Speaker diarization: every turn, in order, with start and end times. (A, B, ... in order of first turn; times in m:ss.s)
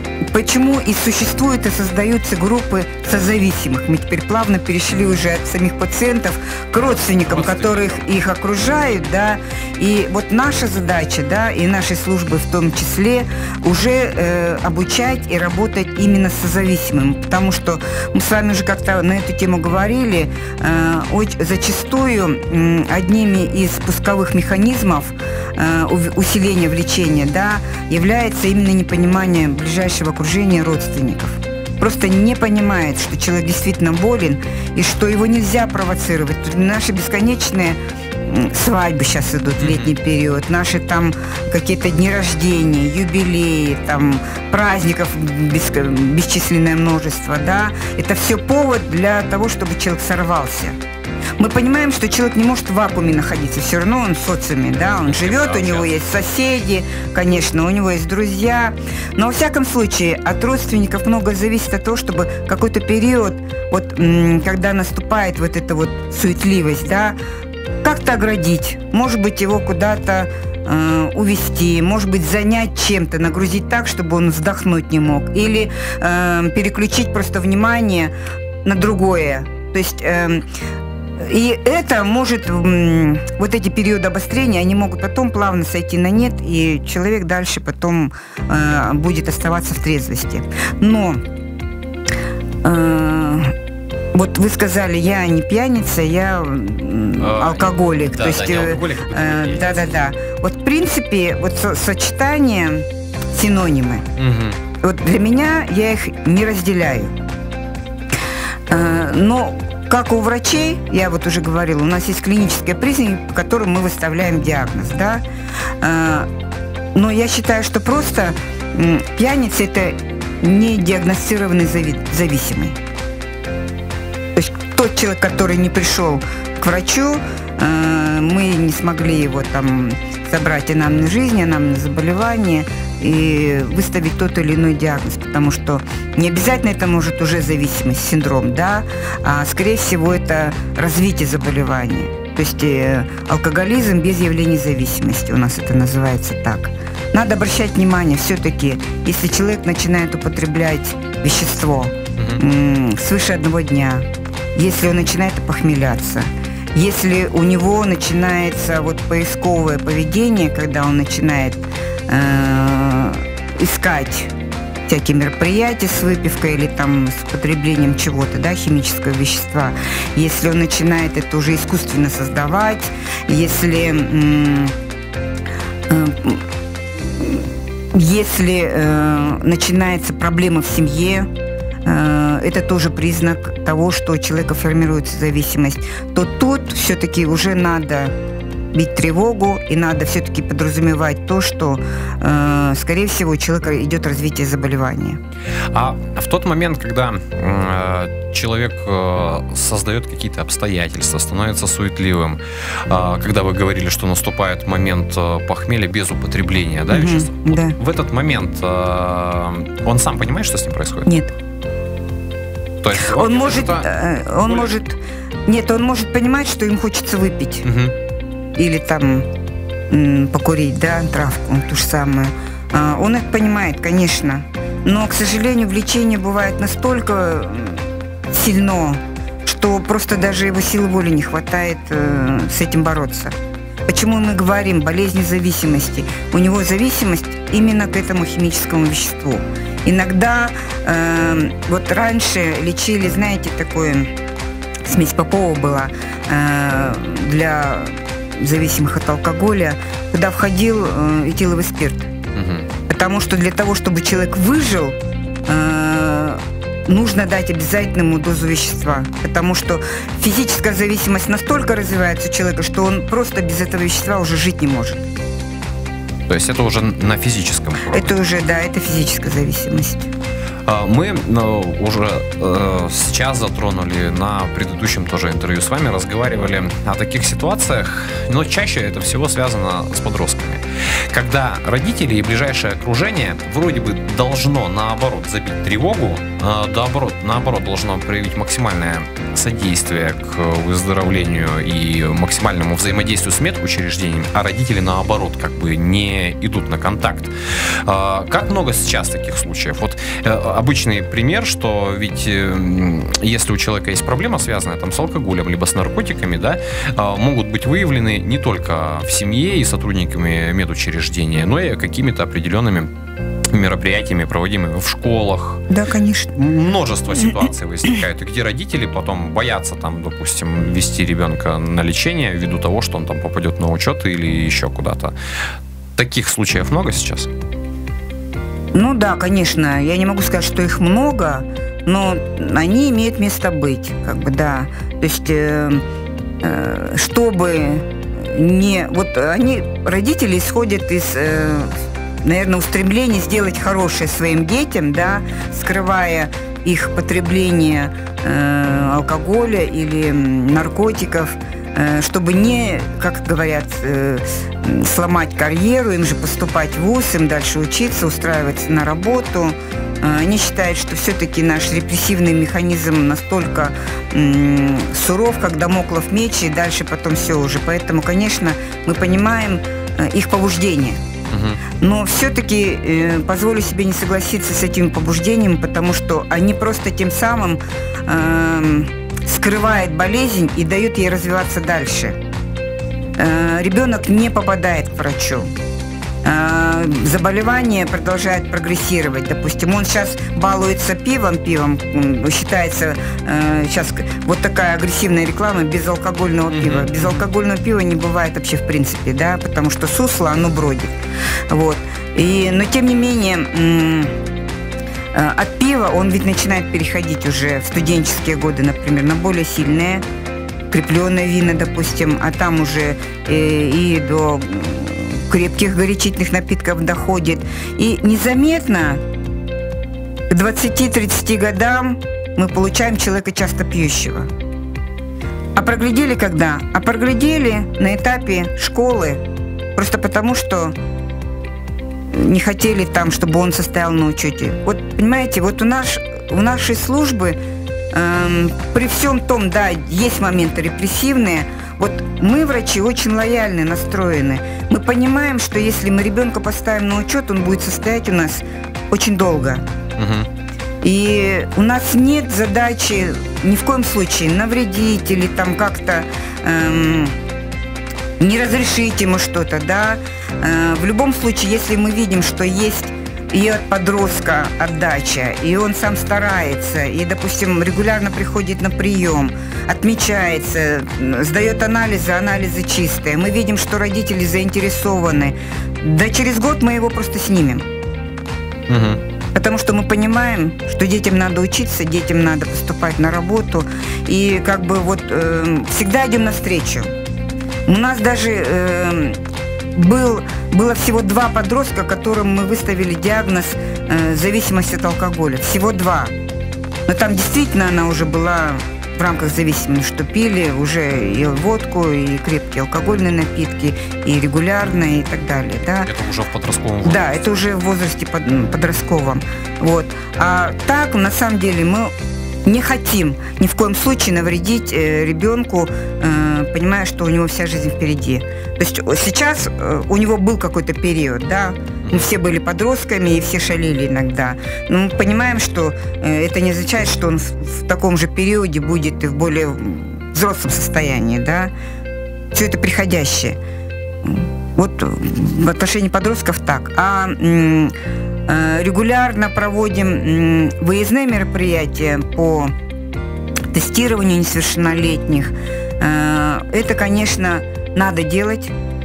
0:00.3-0:50.8 A
0:07.2-0:08.0 B
0:39.6-0:39.9 B
0:51.4-1:07.2 A
0:55.0-0:55.9 B
1:07.8-1:18.1 A
1:18.6-1:20.4 A
1:21.2-1:31.2 A
1:32.6-1:33.5 A
1:34.1-1:44.0 A
1:37.2-1:40.0 B
1:44.2-1:44.6 B
1:44.8-1:47.1 A
1:48.7-1:55.2 A
1:55.8-1:56.3 A
1:56.9-2:02.8 A
2:04.4-2:44.3 A
2:44.9-2:54.7 A
2:55.9-2:56.4 A
2:57.0-3:01.3 A
3:01.8-3:08.1 A
3:08.7-3:15.2 A
3:15.7-3:31.1 B
3:26.9-3:27.8 A
3:31.0-3:31.3 A
3:32.8-3:34.7 B
3:33.0-3:37.6 A
3:37.6-3:37.9 B
3:38.6-3:39.3 A
3:39.9-3:53.3 A
3:53.8-4:04.1 A
4:04.8-4:12.1 A
4:12.3-4:12.7 B
4:12.9-4:25.1 A
4:26.3-4:28.2 B
4:27.9-4:30.1 A
4:30.6-5:12.9 B
5:13.5-5:15.6 B
5:15.7-5:16.6 A
5:16.4-5:25.1 B
5:26.0-5:27.3 B
5:28.7-5:35.8 A
5:36.4-6:11.0 A
6:11.3-6:11.6 B
6:11.8-6:22.2 A
6:23.2-6:25.5 A
6:26.2-6:40.9 A
6:36.5-6:37.2 B
6:41.5-6:44.1 A
6:45.1-6:50.0 A
6:50.7-6:59.0 A
7:00.3-7:04.3 A
7:05.6-7:09.2 A
7:09.7-7:10.7 A
7:12.1-7:17.4 A
7:17.9-7:29.6 A
7:30.0-7:30.3 B
7:30.8-7:37.1 A
7:38.2-7:57.6 A
7:58.7-7:59.0 B
7:59.3-8:06.9 A
8:07.6-8:09.2 A
8:09.7-8:16.1 A
8:16.9-8:25.9 A
8:25.8-8:27.4 B
8:26.8-8:31.9 A
8:32.4-8:51.5 A
8:41.8-8:42.1 B
8:52.3-8:53.4 A
8:54.0-8:57.7 A
8:58.3-9:02.5 A
9:03.5-9:08.5 A